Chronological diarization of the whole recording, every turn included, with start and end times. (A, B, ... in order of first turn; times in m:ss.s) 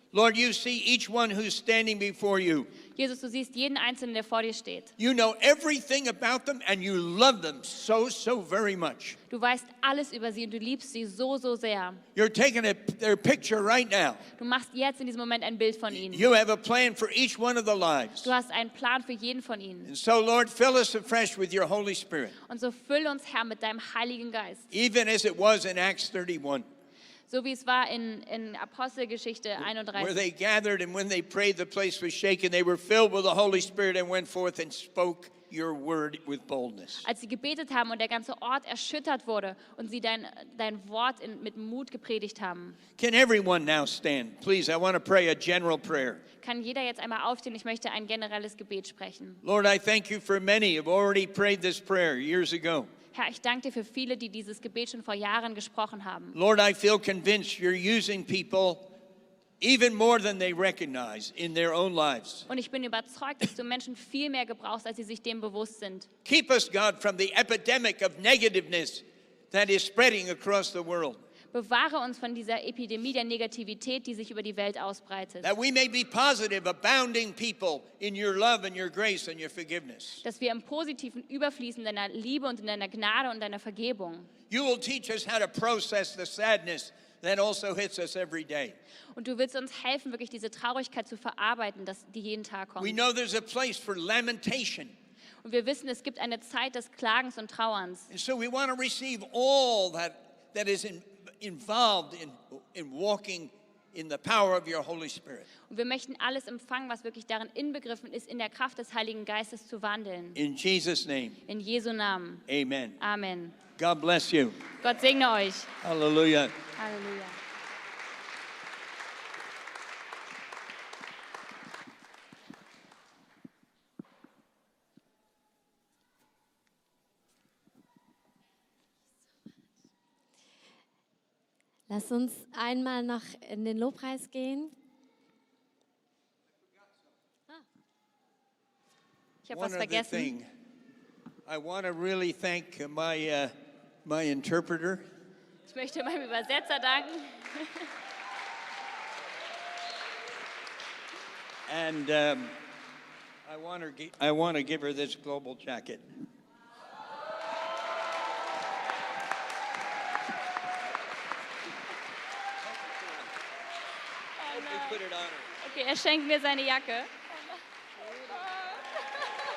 0:00.1-0:02.7 A
0:03.0-0:04.9 B
0:05.0-0:09.2 A
0:09.3-0:12.0 B
0:12.2-0:14.2 A
0:14.4-0:16.3 B
0:15.9-0:18.3 A
0:18.2-0:19.9 B
0:19.8-0:22.4 A
0:22.5-0:24.7 B
0:24.7-0:26.7 A
0:27.3-0:30.2 B
0:30.0-0:37.1 A
0:37.0-0:42.8 B
0:43.0-0:46.2 A
0:46.4-0:49.4 B
0:49.4-0:52.9 A
0:53.1-0:56.4 B
0:56.3-0:58.9 A
0:59.6-1:02.5 A
1:02.5-1:06.1 B
1:06.2-1:11.2 A
1:11.5-1:15.5 B
1:15.4-1:20.2 A
1:20.2-1:24.3 B
1:24.5-1:28.8 A
1:29.2-1:33.0 B
1:32.8-1:34.9 A
1:35.4-1:38.1 B
1:38.1-1:45.5 A
1:45.7-1:50.4 B
1:50.4-1:51.4 A
1:51.5-1:52.4 B
1:52.5-1:53.0 A
1:53.0-1:53.6 B
1:53.8-1:54.6 A
1:54.8-1:55.8 B
1:55.8-1:56.6 A
1:56.8-1:57.4 B
2:11.9-2:14.7 C
2:19.4-2:20.3 B
2:19.5-2:20.5 A
2:21.5-2:23.5 A
2:24.0-2:25.0 A
2:25.7-2:27.9 B
2:31.7-2:32.6 A
2:33.5-2:36.0 A
2:42.7-2:43.3 A
2:44.4-2:45.0 B
2:44.5-2:45.6 A
2:45.6-2:47.6 B
2:48.3-2:48.8 B